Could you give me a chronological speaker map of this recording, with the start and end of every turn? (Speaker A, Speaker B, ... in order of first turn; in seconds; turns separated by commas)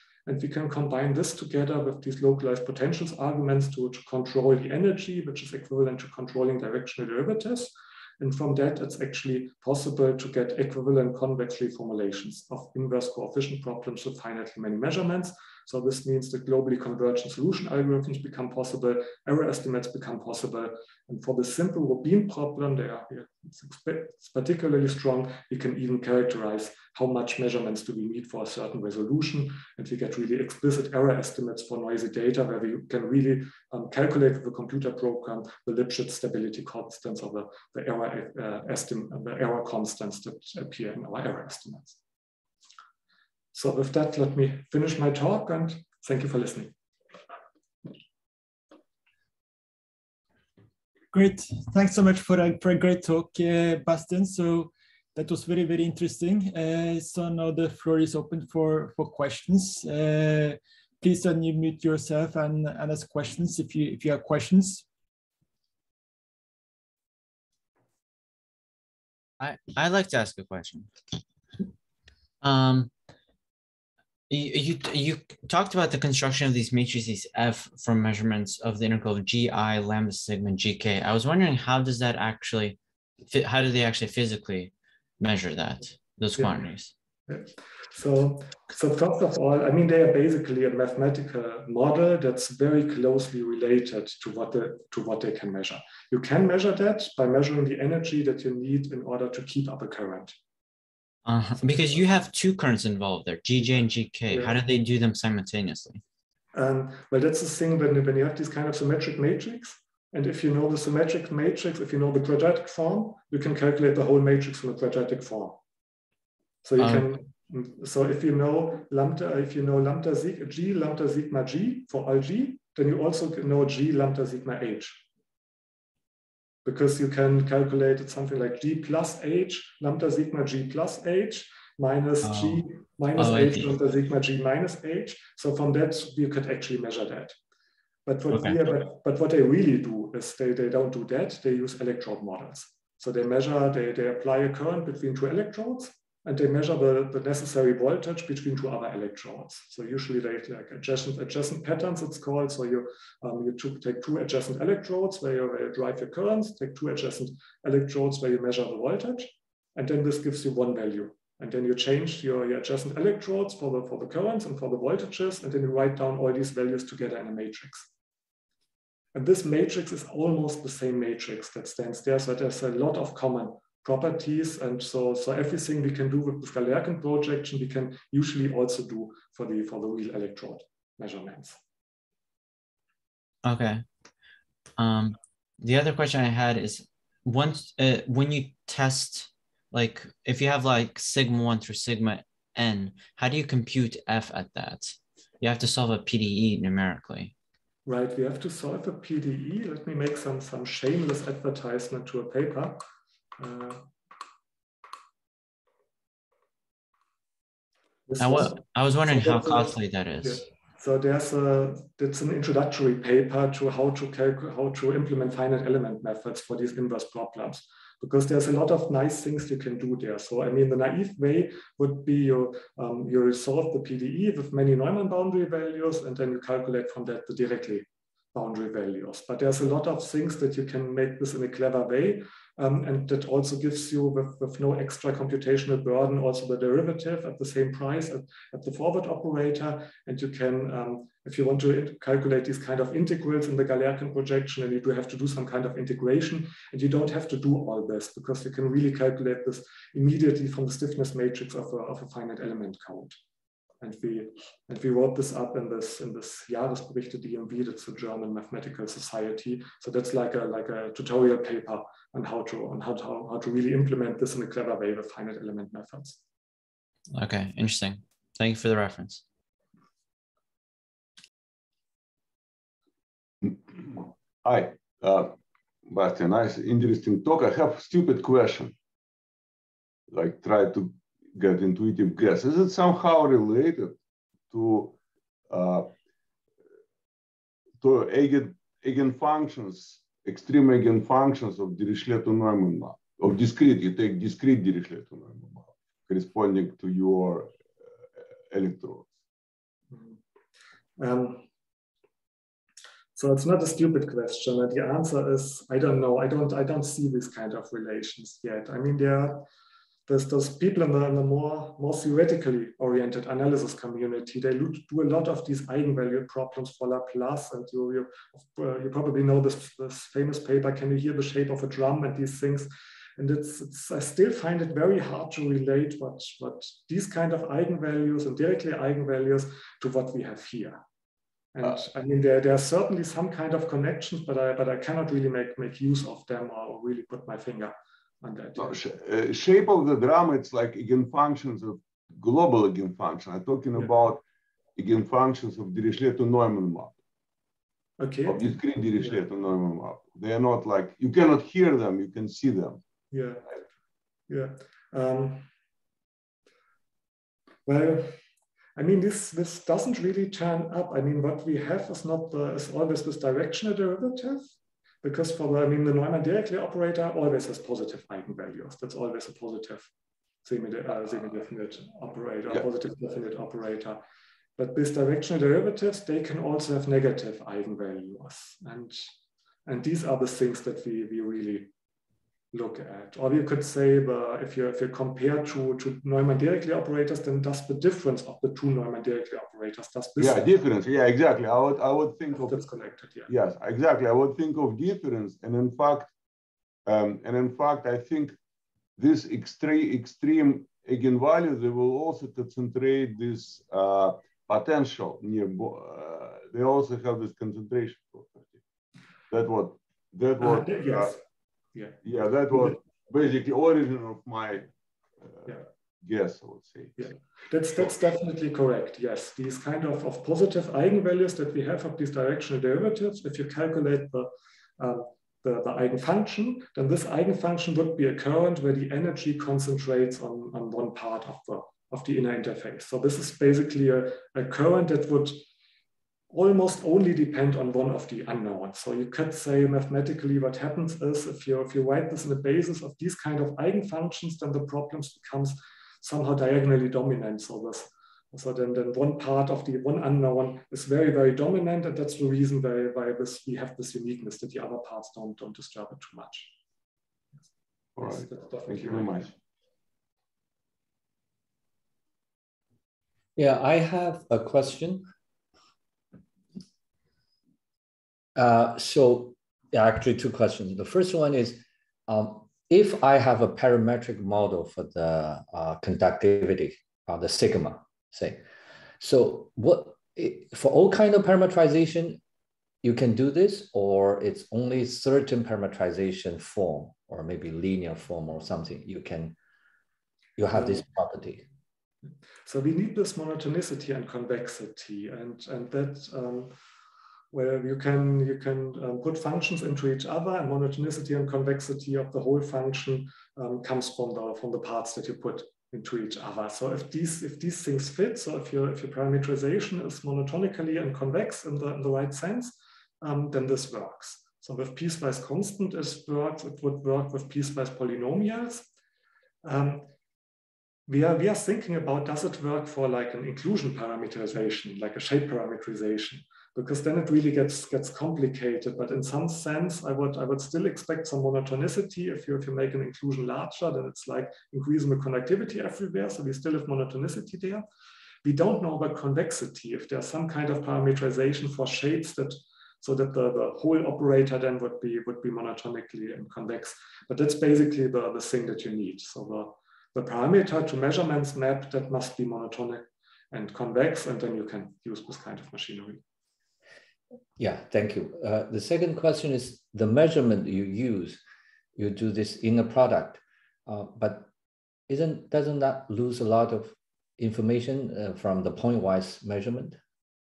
Speaker A: 0.3-42.0, Speaker A: 43.5-46.7, Speaker B: 51.1-64.9, Speaker C: 69.4-70.9, Speaker C: 72.4-72.9, Speaker C: 74.3-86.9, Speaker A: 86.4-86.6, Speaker A: 87.3-100.3, Speaker C: 101.2-106.0, Speaker A: 104.3-104.6, Speaker A: 106.5-115.6, Speaker A: 116.6-125.1, Speaker C: 116.8-117.0, Speaker A: 126.7-137.4, Speaker C: 132.2-132.7, Speaker C: 133.2-133.7, Speaker A: 138.1-167.9, Speaker C: 138.3-138.6, Speaker A: 169.2-181.6, Speaker C: 183.4-183.8, Speaker C: 184.8-197.3, Speaker A: 197.8-202.8, Speaker A: 203.4-203.9, Speaker A: 208.1-253.2, Speaker C: 208.2-210.4, Speaker A: 253.8-266.2, Speaker C: 267.1-269.2, Speaker D: 273.4-275.4, Speaker D: 275.9-278.8, Speaker D: 280.1-284.0, Speaker D: 284.5-285.0, Speaker D: 285.5-285.9, Speaker D: 287.8-297.6, Speaker D: 298.5-299.1, Speaker A: 299.9-300.2, Speaker A: 301.0-301.5, Speaker A: 303.1-309.5, Speaker A: 310.1-330.8, Speaker A: 331.5-338.8, Speaker D: 338.6-344.2, Speaker D: 344.8-347.0, Speaker A: 348.0-349.2, Speaker D: 348.2-352.8, Speaker A: 353.1-353.5, Speaker A: 354.3-355.5, Speaker A: 357.7-358.2, Speaker A: 358.8-364.5, Speaker A: 365.0-369.9, Speaker A: 370.4-374.0, Speaker A: 374.6-379.1, Speaker A: 379.7-381.7, Speaker A: 382.5-390.5, Speaker D: 390.2-392.6, Speaker A: 392.4-393.3, Speaker D: 393.3-396.1, Speaker D: 396.9-398.4, Speaker D: 399.0-408.6, Speaker D: 409.3-411.1, Speaker A: 410.4-411.2, Speaker A: 411.8-412.8, Speaker D: 412.0-414.7, Speaker D: 415.2-417.1, Speaker A: 417.0-435.4, Speaker A: 436.3-456.5, Speaker D: 458.0-459.3, Speaker A: 458.0-459.3, Speaker E: 463.4-465.1, Speaker E: 468.4-478.4, Speaker E: 479.0-482.2, Speaker E: 482.8-489.4, Speaker E: 490.4-491.4, Speaker A: 490.6-490.8, Speaker A: 492.5-496.5, Speaker A: 497.3-518.7, Speaker A: 519.4-519.9, Speaker A: 520.9-537.6, Speaker A: 538.2-556.0, Speaker E: 557.4-561.2, Speaker E: 561.8-564.3, Speaker E: 564.9-569.8